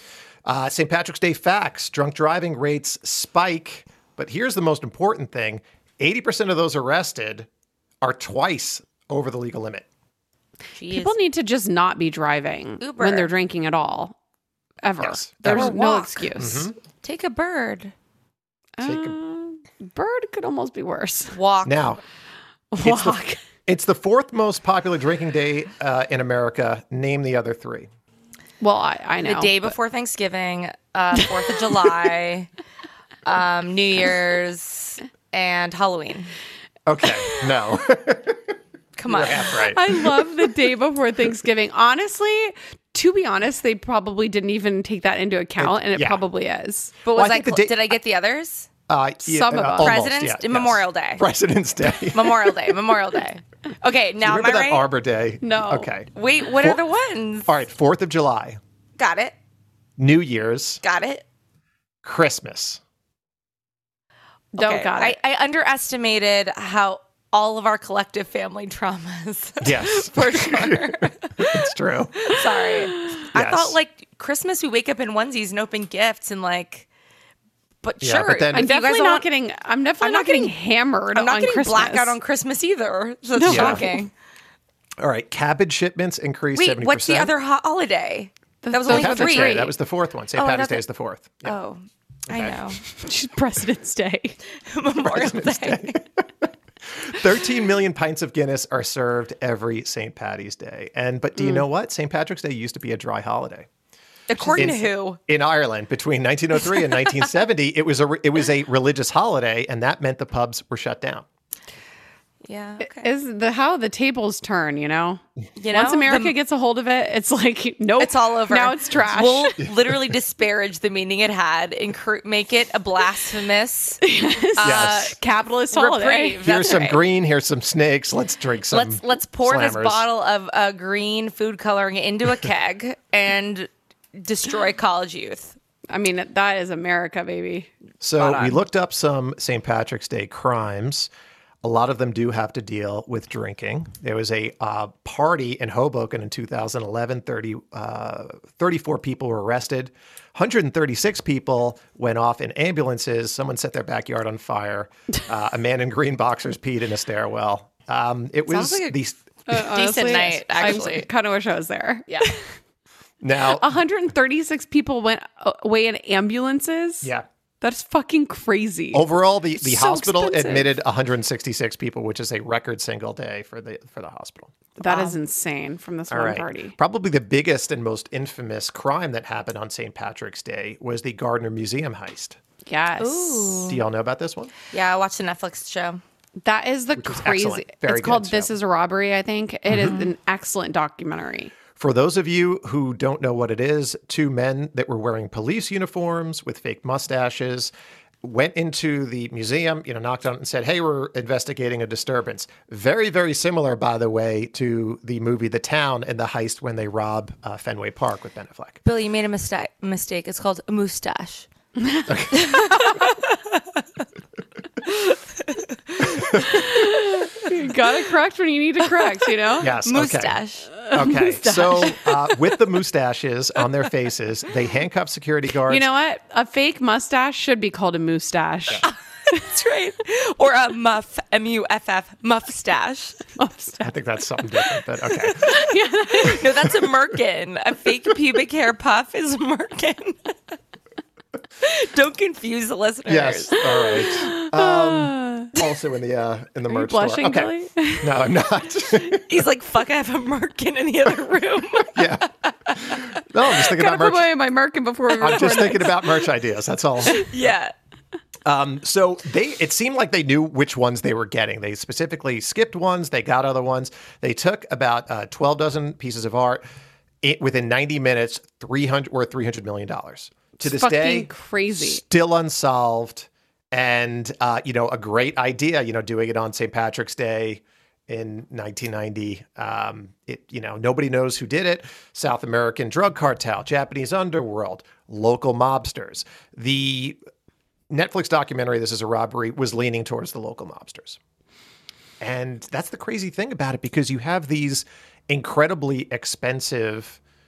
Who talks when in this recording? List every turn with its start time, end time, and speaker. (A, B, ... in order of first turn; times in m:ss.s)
0:00.4-0:07.5 A
0:08.0-0:09.8 A
0:10.7-0:11.2 B
0:10.9-0:14.2 C
0:12.8-0:13.3 B
0:14.8-0:16.7 C
0:15.0-0:15.8 A
0:15.4-0:16.3 B
0:16.3-0:16.7 A
0:17.0-0:17.9 B
0:18.8-0:21.3 C
0:18.8-0:19.2 A
0:21.3-0:21.9 B
0:21.6-0:22.0 A
0:22.7-0:23.4 C
0:22.8-0:27.9 A
0:28.6-0:29.7 C
0:29.2-0:32.5 B
0:33.2-0:36.3 B
0:36.8-0:38.5 A
0:39.0-0:39.7 B
0:39.1-0:40.1 A
0:39.7-0:46.9 C
0:45.6-0:46.2 A
0:47.0-0:48.7 B
0:47.1-0:47.9 A
0:48.9-0:52.7 A
0:49.2-0:49.9 C
0:49.8-0:51.2 B
0:52.1-0:54.8 B
0:54.2-0:56.1 A
0:55.4-0:55.9 C
0:56.1-0:57.5 B
0:57.4-0:58.6 A
0:59.0-0:59.3 B
1:00.0-1:00.8 A
1:00.8-1:01.2 B
1:02.0-1:02.8 A
1:04.5-1:05.2 C
1:04.6-1:11.6 B
1:09.6-1:12.3 A
1:12.2-1:16.9 B
1:13.3-1:13.8 A
1:17.8-1:19.3 B
1:18.0-1:18.7 A
1:18.5-1:22.1 C
1:20.0-1:20.5 B
1:21.1-1:24.1 B
1:23.3-1:24.1 C
1:23.4-1:23.8 A
1:25.0-1:27.3 A
1:26.5-1:29.7 B
1:28.6-1:29.7 C
1:28.9-1:31.6 A
1:30.3-1:30.8 B
1:31.4-1:32.8 B
1:32.3-1:32.6 A
1:33.0-1:34.4 C
1:34.7-1:36.0 B
1:35.0-1:43.7 A
1:44.3-1:45.2 B
1:44.4-1:44.7 C
1:44.5-1:51.2 A
1:52.4-1:53.1 B
1:52.8-1:59.5 C
1:55.6-1:56.4 B
1:58.0-2:04.0 B
2:04.0-2:06.4 C
2:04.6-2:05.2 B
2:04.6-2:05.1 A
2:05.7-2:07.0 B
2:06.4-2:10.0 A
2:08.7-2:15.6 B
2:15.9-2:17.7 C
2:18.0-2:21.1 A
2:18.2-2:18.6 B
2:21.6-2:39.2 A
2:38.5-2:39.0 B
2:39.5-2:42.4 C
2:39.5-2:41.1 B
2:43.2-2:43.7 A
2:43.5-2:50.7 C
2:48.9-2:54.7 A
2:54.8-2:56.8 C
2:54.8-2:55.2 B
2:56.1-3:02.4 A
3:02.6-3:03.7 C
3:03.0-3:03.8 B
3:03.7-3:04.5 A
3:04.7-3:06.0 B
3:06.4-3:11.5 C
3:07.0-3:08.5 A
3:09.7-3:10.0 A
3:11.8-3:28.8 A
3:28.8-3:31.5 B
3:32.1-3:32.6 A
3:32.3-3:33.4 B
3:36.4-3:39.7 C
3:39.1-3:40.8 B
3:39.6-3:45.9 A
3:40.8-3:41.7 C
3:41.7-3:42.1 B
3:45.7-3:48.8 C
3:48.8-3:53.2 B
3:53.4-3:53.9 C
3:53.8-3:55.6 A
3:55.4-3:56.4 C
3:56.1-4:00.4 B
4:01.6-4:03.6 B
4:03.0-4:09.2 A
4:04.1-4:05.5 C
4:06.7-4:08.2 C
4:09.2-4:12.2 B
4:11.9-4:14.4 A
4:13.7-4:16.0 C
4:15.2-4:17.2 A
4:17.1-4:17.7 B
4:18.4-4:26.6 A
4:27.2-4:47.2 A
4:30.6-4:32.0 C
4:47.9-4:51.2 A
4:52.2-4:57.2 A